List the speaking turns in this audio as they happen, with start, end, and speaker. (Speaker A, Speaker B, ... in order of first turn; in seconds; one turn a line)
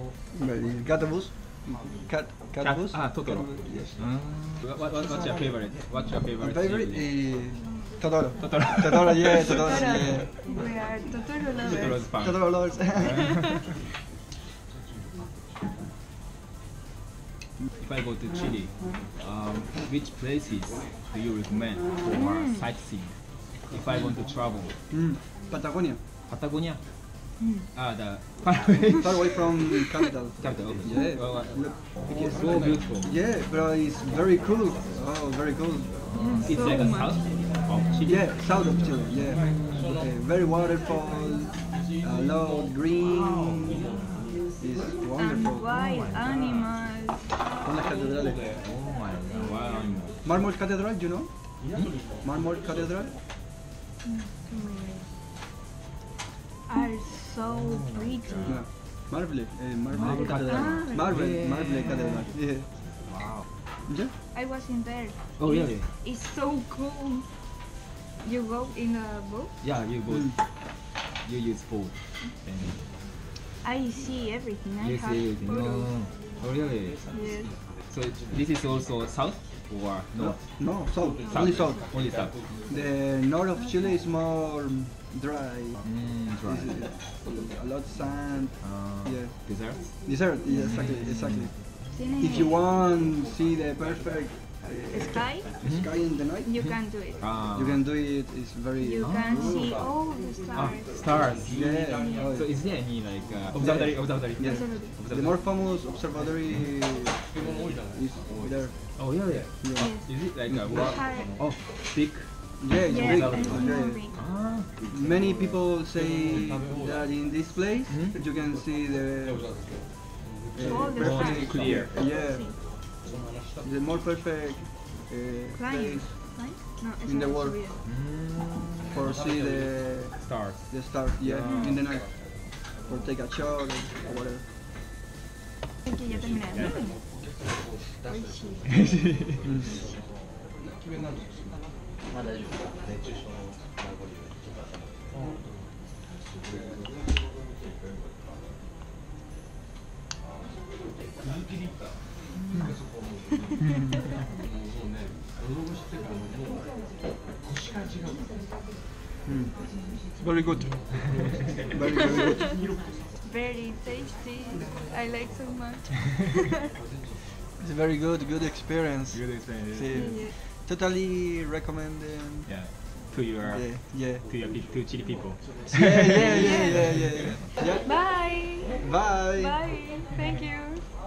Speaker A: 0.3-4.0
Speaker B: 2.6-7.1
Speaker A: 6.4-10.3
Speaker C: 7.5-7.9
Speaker B: 8.4-9.6
Speaker C: 9.6-12.0
Speaker B: 11.6-13.4
Speaker A: 11.6-13.6
Speaker B: 17.8-24.8
Speaker C: 22.1-22.6
Speaker A: 24.9-26.0
Speaker B: 26.3-26.8
Speaker C: 27.4-27.7
Speaker B: 27.7-29.5
Speaker A: 28.9-35.9
Speaker B: 30.4-33.1
Speaker B: 36.1-38.3
Speaker C: 36.1-37.2
Speaker A: 38.0-43.8
Speaker B: 39.4-40.0
Speaker B: 43.2-43.8
Speaker A: 44.6-45.7
Speaker C: 45.2-47.8
Speaker B: 45.7-46.5
Speaker A: 47.6-48.4
Speaker B: 48.6-50.2
Speaker A: 50.2-51.3
Speaker A: 52.2-53.1
Speaker C: 54.0-55.1
Speaker C: 56.7-58.6
Speaker B: 57.5-58.6
Speaker A: 58.4-62.7
Speaker B: 59.9-62.3
Speaker C: 60.0-61.2
Speaker C: 61.8-62.2
Speaker B: 62.9-63.5
Speaker A: 63.9-64.1
Speaker C: 64.3-67.3
Speaker B: 65.4-65.9
Speaker C: 68.2-69.5
Speaker B: 69.6-70.5
Speaker A: 70.1-70.4
Speaker B: 71.0-72.8
Speaker C: 73.6-75.9
Speaker B: 74.8-77.1
Speaker C: 77.1-77.5
Speaker B: 77.8-80.7
Speaker A: 80.2-81.9
Speaker C: 81.2-81.8
Speaker B: 81.3-82.4
Speaker A: 82.7-89.4
Speaker C: 83.5-84.0
Speaker B: 85.8-86.7
Speaker B: 88.6-90.0
Speaker A: 90.0-91.5
Speaker C: 90.5-90.9
Speaker B: 90.6-91.5
Speaker C: 91.9-92.6
Speaker A: 92.2-96.5
Speaker C: 94.9-95.5
Speaker B: 95.6-95.9
Speaker C: 96.4-97.2
Speaker B: 96.7-97.8
Speaker A: 97.5-99.6
Speaker C: 98.8-101.0
Speaker B: 99.0-99.9
Speaker B: 100.5-105.4
Speaker A: 101.5-102.5
Speaker C: 102.0-102.3
Speaker A: 103.5-108.8
Speaker C: 104.4-104.9
Speaker B: 109.0-114.7
Speaker A: 109.6-110.6
Speaker C: 109.8-111.3
Speaker A: 112.6-114.0
Speaker C: 112.9-114.2
Speaker A: 114.9-119.5
Speaker B: 117.9-118.2
Speaker A: 120.5-122.5
Speaker C: 120.6-122.6
Speaker B: 121.0-121.9
Speaker A: 123.6-126.2
Speaker C: 125.5-127.8
Speaker A: 127.0-127.6
Speaker B: 127.8-129.1
Speaker A: 128.9-132.1
Speaker B: 130.2-131.8
Speaker A: 132.8-134.4
Speaker C: 135.8-137.0
Speaker C: 138.0-139.0
Speaker A: 159.2-159.5
Speaker A: 160.2-160.9
Speaker A: 161.7-162.6
Speaker C: 163.2-166.5
Speaker A: 167.6-172.5
Speaker B: 169.1-170.2
Speaker C: 169.9-170.3
Speaker B: 172.5-177.4
Speaker A: 173.4-174.3
Speaker A: 175.7-178.0
Speaker C: 176.2-176.8
Speaker C: 177.6-180.9
Speaker A: 178.8-179.6